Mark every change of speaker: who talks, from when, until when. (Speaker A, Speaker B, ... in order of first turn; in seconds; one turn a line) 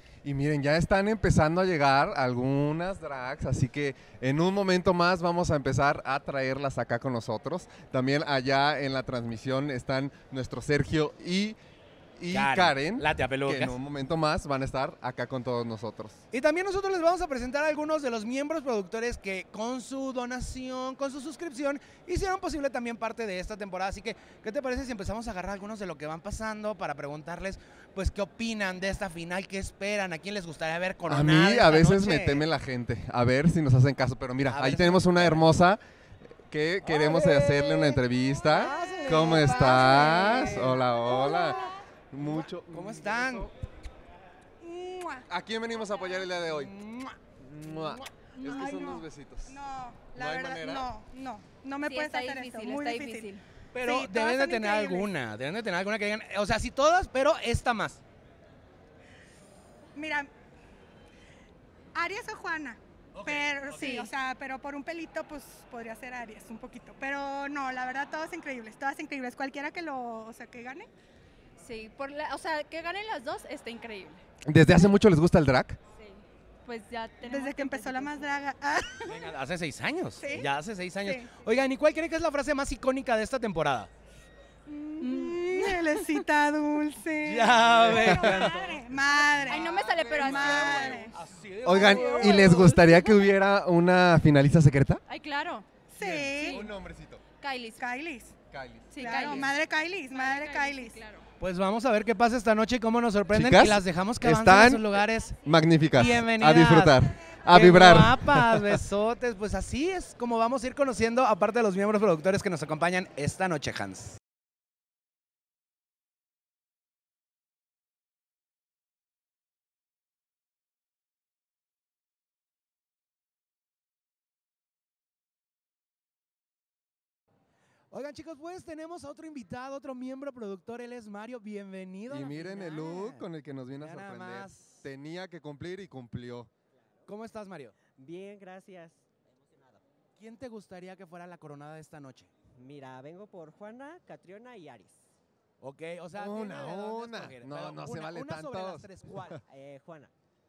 Speaker A: 0.2-11.6
Speaker A: 12.2-16.2
Speaker B: 12.3-13.7
Speaker B: 16.3-32.4
Speaker A: 31.1-35.8
Speaker B: 34.5-35.5
Speaker A: 36.5-41.6
Speaker B: 36.8-41.7
Speaker A: 42.1-43.4
Speaker B: 42.2-43.5
Speaker C: 44.6-45.3
Speaker A: 45.3-46.7
Speaker B: 46.5-47.1
Speaker A: 47.4-49.6
Speaker B: 47.7-48.0
Speaker C: 48.3-55.1
Speaker A: 50.1-50.9
Speaker D: 51.8-53.4
Speaker B: 53.8-58.0
Speaker C: 60.0-60.3
Speaker C: 62.0-70.9
Speaker D: 63.8-64.1
Speaker D: 71.6-74.2
Speaker A: 74.5-75.8
Speaker D: 75.9-78.2
Speaker C: 77.2-79.0
Speaker B: 79.0-83.9
Speaker B: 84.7-85.8
Speaker C: 85.0-91.2
Speaker B: 87.2-88.8
Speaker A: 87.9-88.5
Speaker D: 89.3-91.2
Speaker A: 90.3-91.0
Speaker A: 91.6-95.0
Speaker D: 92.1-92.4
Speaker D: 95.1-95.8
Speaker C: 95.9-96.7
Speaker A: 96.3-97.2
Speaker D: 97.4-97.8
Speaker C: 97.8-98.3
Speaker A: 98.5-99.0
Speaker D: 98.9-101.2
Speaker C: 98.9-101.1
Speaker B: 101.4-105.4
Speaker A: 103.3-108.8
Speaker B: 105.9-114.2
Speaker B: 127.9-133.2
Speaker A: 132.1-136.5
Speaker B: 133.8-134.9
Speaker B: 137.1-137.8
Speaker E: 138.0-139.8
Speaker B: 140.2-142.3
Speaker E: 142.6-145.2
Speaker B: 145.6-149.4
Speaker A: 146.2-149.4
Speaker E: 149.5-150.1